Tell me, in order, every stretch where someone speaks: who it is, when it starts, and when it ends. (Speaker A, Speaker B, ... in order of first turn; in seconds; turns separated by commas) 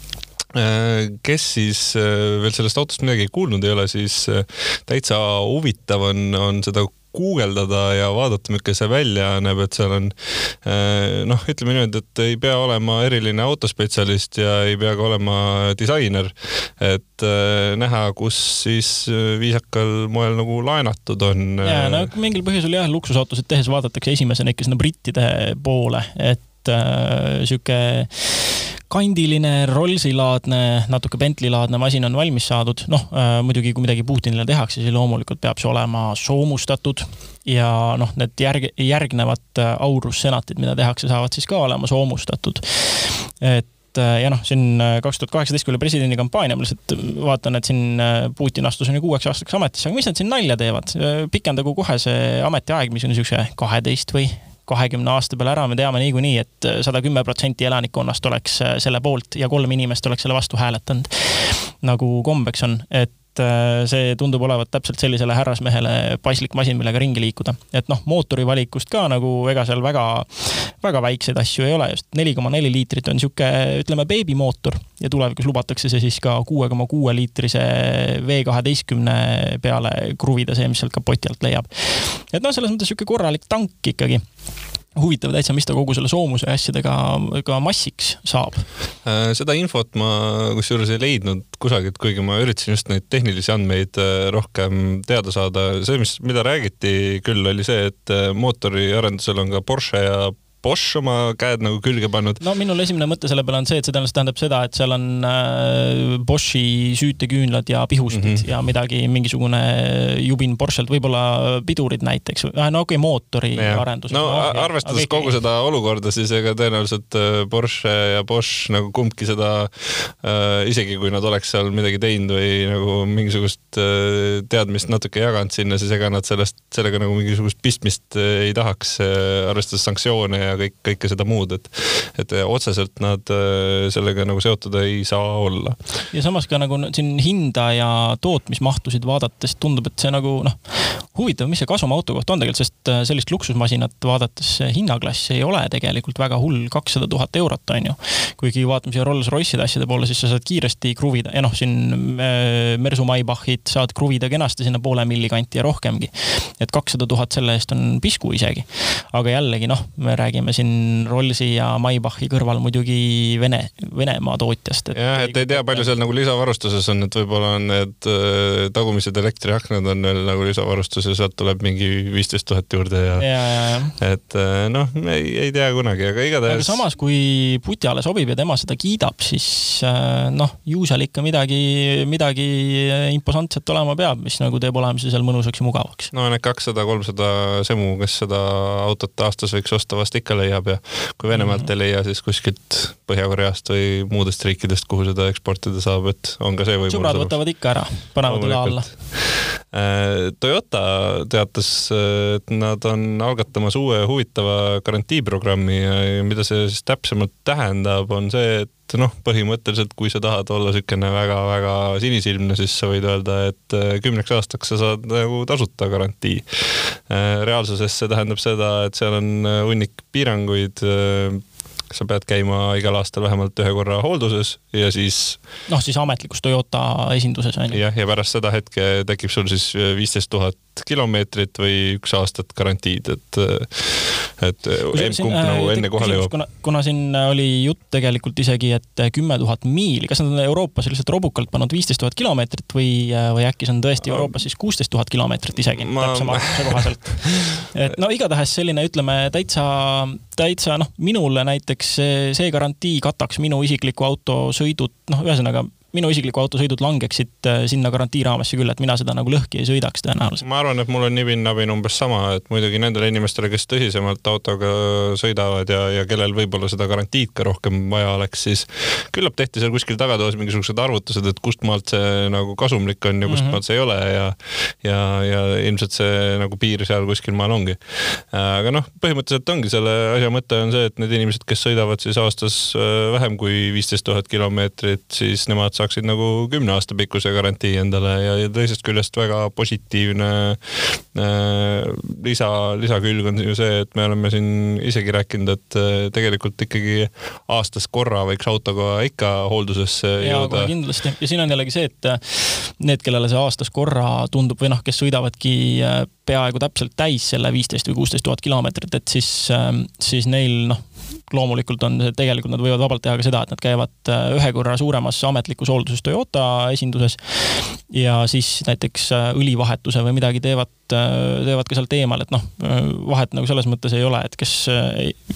Speaker A: 0.5-22.1, Speaker B: 21.6-84.2, Speaker B: 85.0-88.7, Speaker A: 89.0-102.4, Speaker B: 102.4-115.3, Speaker A: 108.1-108.4, Speaker A: 113.5-135.8, Speaker B: 136.1-165.9, Speaker A: 164.9-173.3, Speaker B: 173.2-173.9, Speaker A: 174.0-176.8, Speaker B: 176.4-186.1, Speaker A: 186.1-197.3, Speaker B: 191.3-191.7, Speaker B: 196.9-198.9, Speaker A: 198.3-225.4, Speaker B: 225.7-227.8, Speaker A: 227.7-236.3, Speaker B: 234.9-260.4, Speaker A: 245.8-246.8, Speaker A: 260.4-300.7, Speaker B: 273.3-273.6, Speaker B: 300.2-325.2